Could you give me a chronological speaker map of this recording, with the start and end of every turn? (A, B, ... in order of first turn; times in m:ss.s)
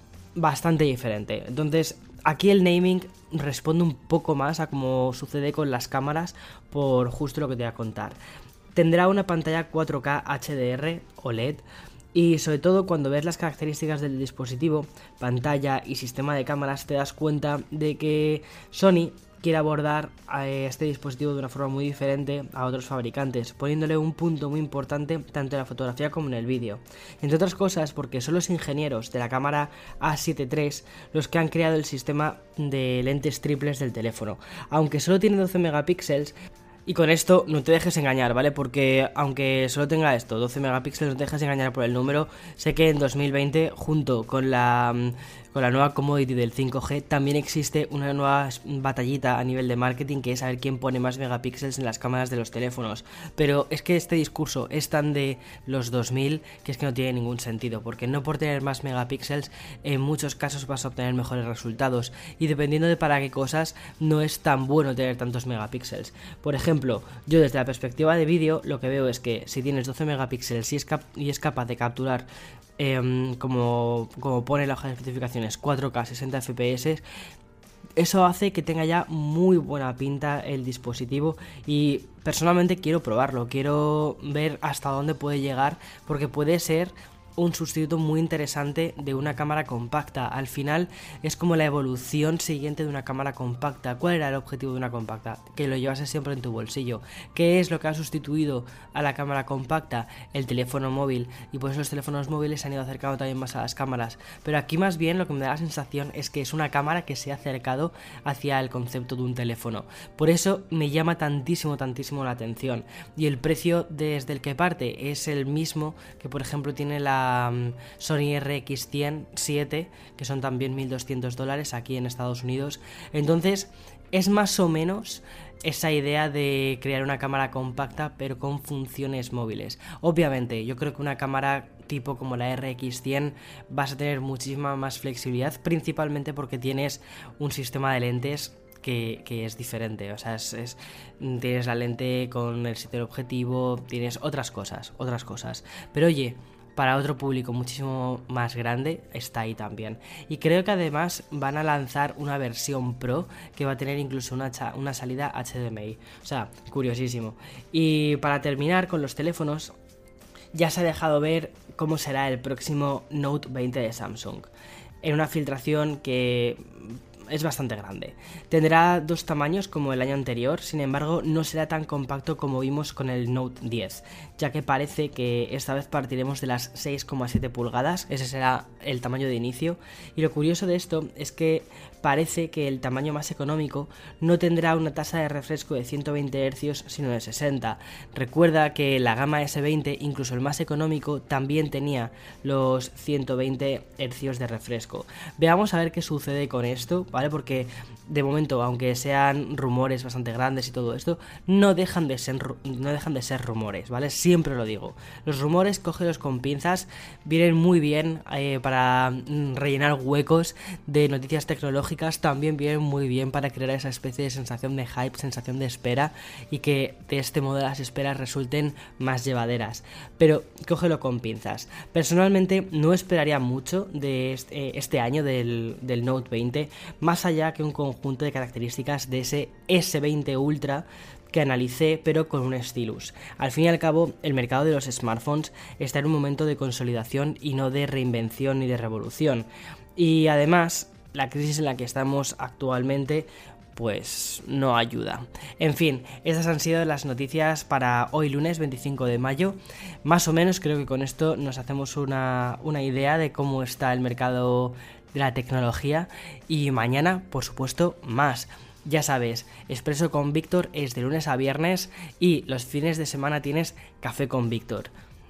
0:00.4-0:08.2 A
0:08.8-0:11.6 A
0:12.2-0:36.3 A
0:36.9-1:12.3 A
1:12.8-1:17.0 A
1:18.0-2:39.7 A
2:40.6-2:44.5 A
2:45.0-4:24.9 A